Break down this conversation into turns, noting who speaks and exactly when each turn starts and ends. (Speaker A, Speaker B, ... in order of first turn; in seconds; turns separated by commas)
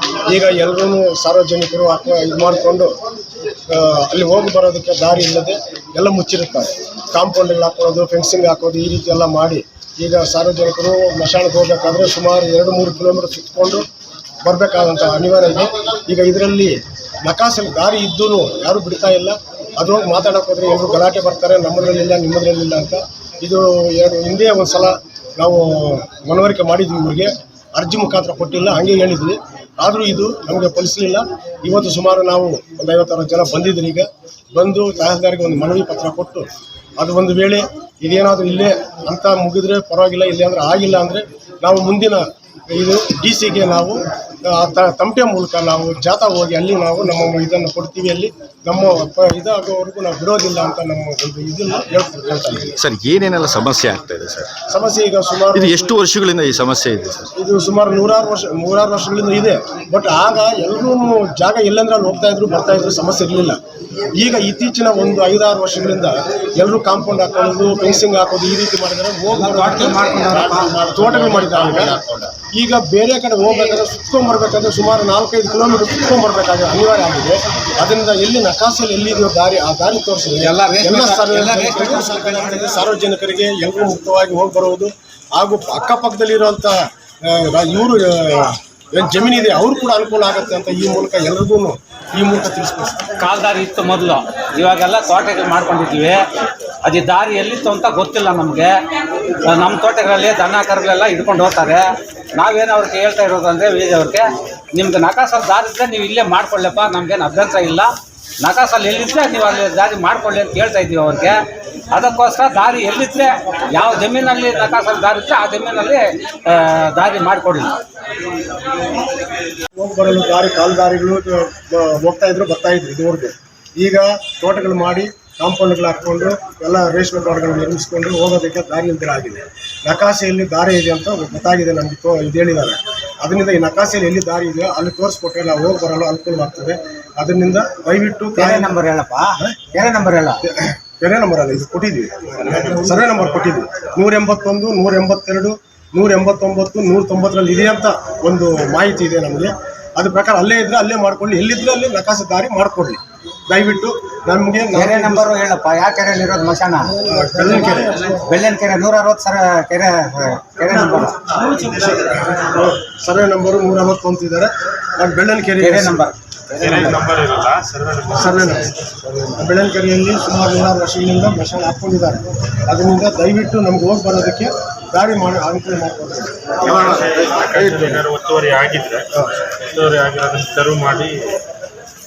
Speaker A: 0.3-3.0, Speaker A: 3.7-13.9, Speaker A: 14.4-36.5, Speaker A: 37.0-52.8, Speaker B: 52.8-54.5, Speaker A: 54.7-55.8, Speaker B: 55.5-57.3, Speaker A: 57.4-63.6, Speaker A: 64.2-70.1, Speaker C: 69.3-70.8, Speaker D: 70.4-71.9, Speaker A: 70.8-72.0, Speaker C: 71.8-72.3, Speaker A: 72.5-93.0, Speaker C: 73.5-73.7, Speaker C: 80.4-82.9, Speaker C: 93.2-96.2, Speaker C: 96.8-98.7, Speaker C: 99.5-111.4, Speaker C: 111.9-117.8, Speaker A: 119.8-138.8, Speaker C: 138.3-140.4, Speaker A: 140.4-155.3, Speaker C: 154.7-156.9, Speaker A: 157.0-158.2, Speaker C: 157.5-161.2, Speaker A: 160.7-166.0, Speaker C: 165.6-167.0, Speaker D: 166.7-167.4, Speaker A: 168.1-177.0, Speaker D: 176.9-178.9, Speaker D: 180.4-181.1